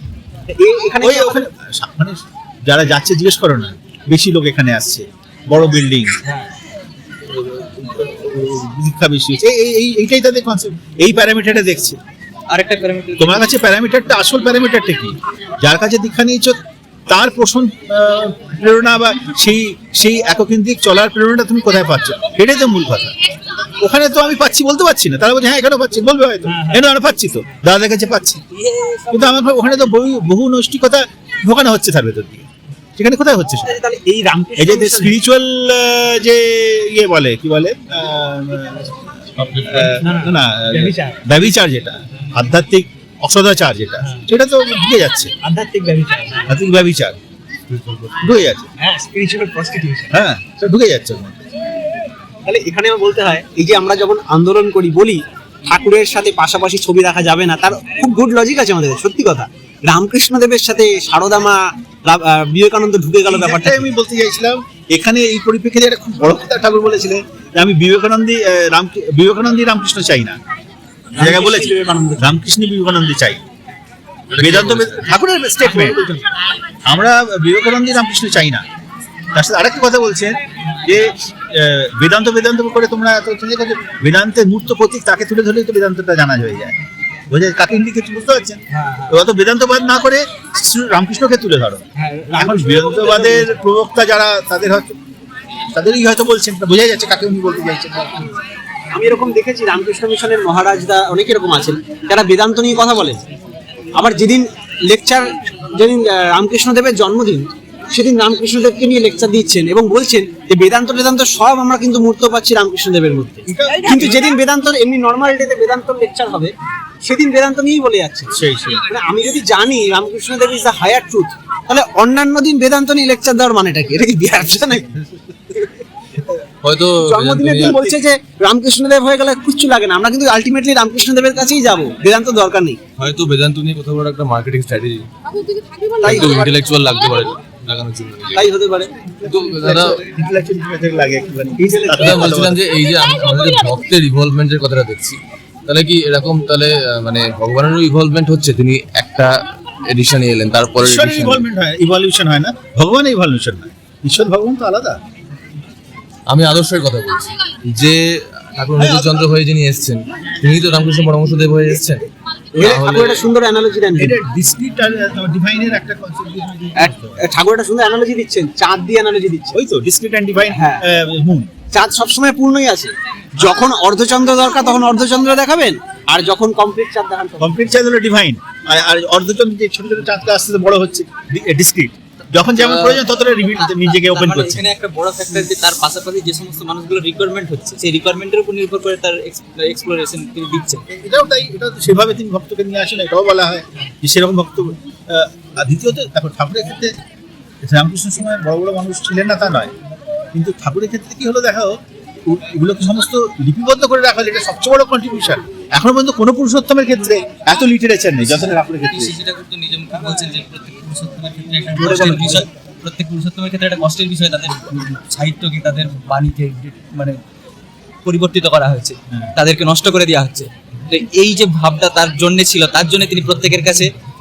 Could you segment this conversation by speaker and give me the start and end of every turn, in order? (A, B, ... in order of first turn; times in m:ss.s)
0:00.5-0:01.5 A
0:01.0-0:06.1 B
0:07.8-0:12.0 B
0:12.5-0:13.6 C
0:13.2-0:23.1 B
0:23.8-0:28.4 B
0:26.5-0:26.8 A
0:28.6-0:29.4 A
0:29.1-0:32.4 B
0:33.0-0:33.7 B
0:33.6-0:35.2 A
0:34.6-0:39.0 B
0:39.4-0:40.0 D
0:39.7-0:45.3 B
0:40.0-0:41.2 A
0:45.4-0:46.5 A
0:46.5-0:47.2 B
0:48.2-0:48.7 B
0:48.8-0:50.2 A
0:50.1-0:51.4 B
0:52.4-1:03.9 A
1:03.3-1:10.4 B
1:11.2-1:12.4 A
1:11.2-1:13.4 B
1:14.3-1:15.1 D
1:14.4-1:16.0 B
1:15.6-1:16.2 A
1:16.9-1:18.6 B
1:19.3-1:26.8 B
1:27.3-1:31.8 B
1:28.7-1:29.2 A
1:32.0-1:33.6 A
1:32.4-1:35.0 B
1:35.7-1:38.2 B
1:38.9-1:43.2 A
1:44.0-2:05.7 A
1:53.5-1:54.2 B
1:58.3-1:58.9 B
2:06.6-2:07.8 D
2:07.0-2:12.8 A
2:07.6-2:08.0 B
2:13.0-2:15.1 D
2:16.0-2:18.5 D
2:16.0-2:16.6 A
2:18.4-2:18.9 A
2:19.2-2:20.0 D
2:19.6-2:22.6 B
2:21.6-2:22.4 A
2:22.0-2:29.3 D
2:29.9-2:31.4 D
2:30.8-2:35.0 B
2:36.3-2:38.0 D
2:38.6-2:42.0 D
2:38.8-2:39.3 B
2:42.6-2:44.2 A
2:42.6-2:43.3 D
2:44.0-2:47.2 B
2:46.8-2:49.6 A
2:49.5-2:51.5 B
2:50.5-2:50.8 A
2:51.7-2:57.6 A
2:57.4-3:04.6 B
3:02.6-3:03.0 D
3:03.5-3:10.8 C
3:10.9-3:17.0 B
3:17.6-3:19.7 B
3:20.3-3:29.1 B
3:28.9-3:37.2 C
3:31.8-3:32.4 B
3:31.9-3:32.4 A
3:38.0-3:43.9 C